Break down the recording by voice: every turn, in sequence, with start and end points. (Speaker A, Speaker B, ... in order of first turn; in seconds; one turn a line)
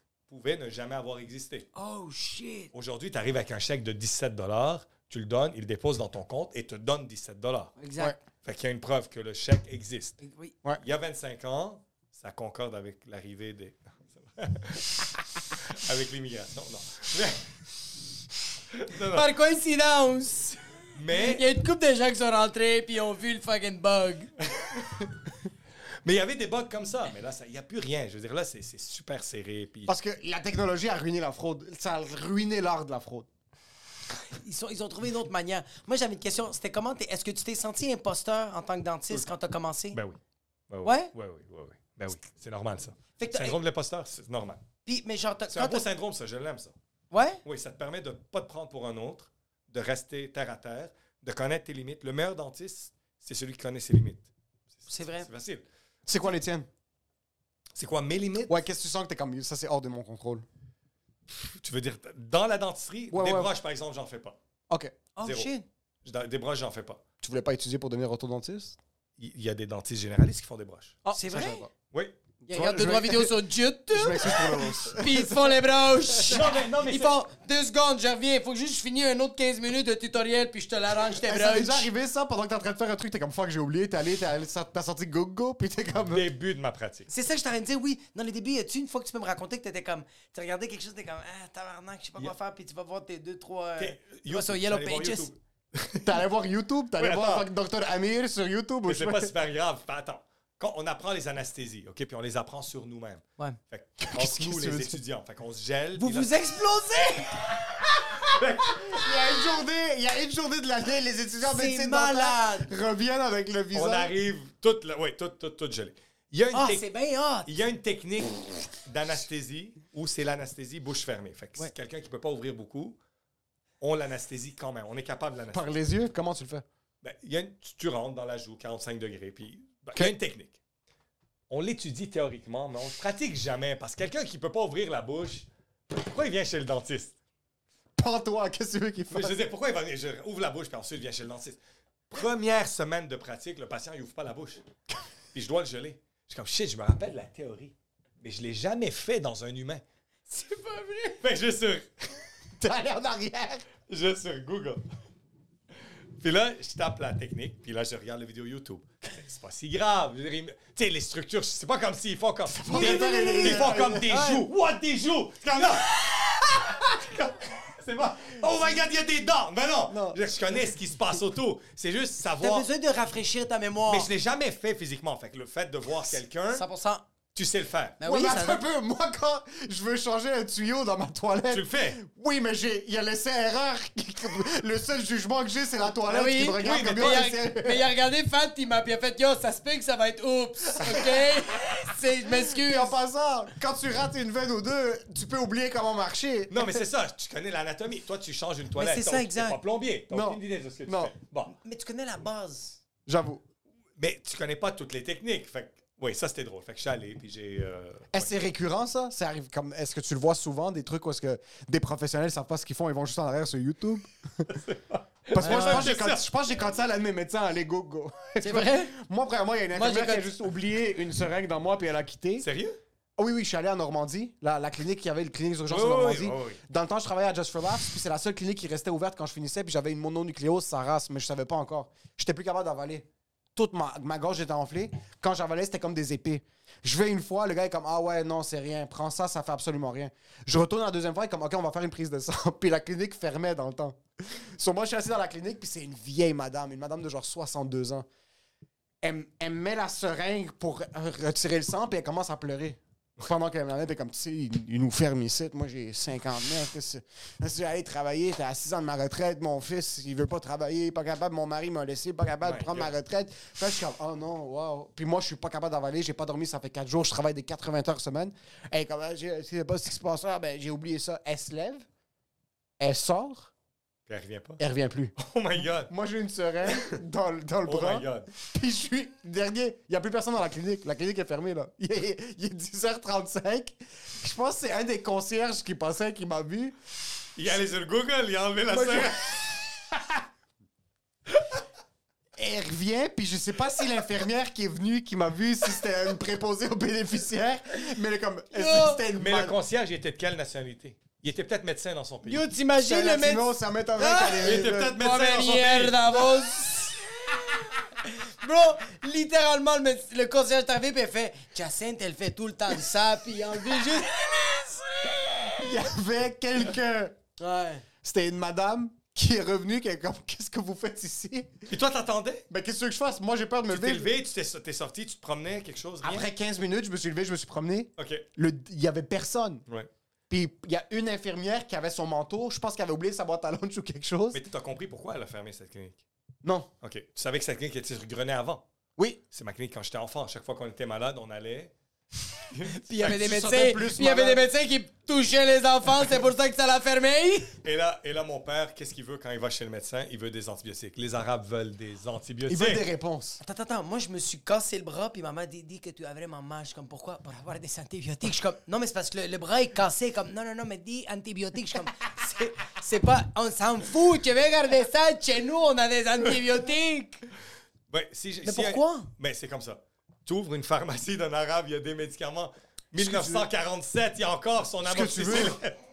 Speaker A: 0.3-1.7
Speaker B: 1.7-2.7
Speaker A: 2.7-7.8
Speaker B: 7.8-8.2
Speaker A: 8.4-10.2
Speaker B: 10.2-10.5
Speaker A: 10.8-17.5
Speaker A: 18.7-19.3
Speaker B: 19.1-24.3
Speaker A: 20.9-21.4
Speaker A: 24.6-25.1
Speaker A: 26.0-29.9
Speaker C: 29.9-33.3
Speaker B: 34.2-40.0
Speaker A: 39.9-40.2
Speaker A: 40.7-44.6
Speaker B: 40.8-41.1
Speaker B: 43.2-43.6
Speaker B: 44.9-45.8
Speaker A: 45.5-46.7
Speaker B: 47.1-47.4
Speaker A: 47.4-54.3
Speaker A: 54.8-55.6
Speaker B: 54.9-55.3
Speaker C: 56.0-56.7
Speaker A: 57.8-58.6
Speaker C: 58.5-60.4
Speaker A: 61.3-64.4
Speaker C: 63.1-63.5
Speaker C: 64.7-65.0
Speaker B: 65.2-65.6
Speaker A: 65.2-65.5
Speaker A: 66.0-67.0
Speaker C: 67.2-68.8
Speaker A: 69.2-71.0
Speaker C: 71.0-71.7
Speaker B: 71.1-71.7
Speaker C: 72.4-73.3
Speaker B: 72.5-81.9
Speaker C: 73.9-76.1
Speaker A: 76.2-77.2
Speaker C: 81.2-86.3
Speaker A: 86.1-87.1
Speaker B: 87.1-95.3
Speaker A: 93.8-96.2
Speaker C: 96.0-99.3
Speaker A: 97.0-97.5
Speaker A: 98.8-106.5
Speaker C: 104.0-105.0
Speaker B: 106.0-107.6
Speaker A: 108.2-109.0
Speaker C: 108.7-114.1
Speaker B: 111.4-112.7
Speaker A: 113.7-116.8
Speaker B: 116.5-117.5
Speaker A: 117.4-123.0
Speaker A: 123.8-125.7
Speaker C: 125.5-126.6
Speaker A: 127.0-130.6
Speaker A: 131.5-137.1
Speaker C: 138.0-139.4
Speaker A: 139.1-141.6
Speaker A: 142.1-144.7
Speaker A: 145.3-149.8
Speaker B: 150.3-151.2
Speaker A: 151.2-152.1
Speaker C: 152.6-153.6
Speaker A: 153.9-154.8
Speaker A: 156.2-172.7
Speaker C: 162.5-164.5
Speaker B: 162.7-163.8
Speaker C: 169.9-170.2
Speaker B: 172.4-174.1
Speaker A: 173.9-176.6
Speaker B: 176.5-177.0
Speaker A: 177.3-178.0
Speaker B: 178.0-178.6
Speaker C: 178.0-187.9
Speaker A: 181.5-182.0
Speaker B: 186.0-192.9
Speaker A: 186.6-187.3
Speaker C: 190.7-191.4
Speaker C: 192.2-196.8
Speaker A: 196.5-201.6
Speaker B: 198.7-199.6
Speaker C: 200.1-201.1
Speaker B: 201.6-202.8
Speaker C: 203.1-203.4
Speaker A: 204.0-208.3
Speaker C: 208.1-214.5
Speaker A: 214.5-216.2
Speaker C: 215.3-222.5
Speaker B: 215.4-215.9
Speaker B: 218.4-218.9
Speaker B: 219.7-220.3
Speaker A: 222.4-222.8
Speaker C: 223.2-248.1
Speaker A: 225.7-226.6
Speaker C: 249.0-271.9
Speaker A: 262.4-262.9
Speaker C: 272.8-273.5
Speaker A: 274.1-274.6
Speaker C: 274.6-275.1
Speaker A: 275.2-275.9
Speaker C: 275.9-286.7
Speaker A: 276.6-277.0
Speaker A: 277.6-278.3
Speaker A: 287.4-289.6
Speaker C: 288.7-289.2
Speaker C: 289.9-290.2
Speaker C: 292.4-299.6
Speaker B: 298.5-299.0
Speaker A: 299.1-302.4
Speaker B: 302.2-315.5
Speaker C: 302.8-305.0
Speaker A: 304.4-306.4
Speaker C: 315.6-317.1
Speaker B: 317.4-317.8
Speaker C: 318.0-321.7
Speaker A: 321.7-322.4
Speaker C: 322.5-324.1
Speaker A: 323.7-326.3
Speaker C: 326.0-329.6
Speaker A: 328.0-328.2
Speaker C: 330.3-334.4
Speaker A: 334.3-336.0
Speaker C: 336.4-336.7
Speaker A: 336.8-338.6
Speaker A: 339.3-341.7
Speaker A: 342.5-343.1
Speaker B: 342.7-347.5
Speaker C: 343.0-344.4
Speaker A: 347.6-352.8
Speaker C: 352.5-353.4
Speaker B: 353.4-367.2
Speaker A: 367.9-375.7
Speaker B: 368.4-369.1
Speaker C: 373.0-373.5
Speaker C: 374.8-375.6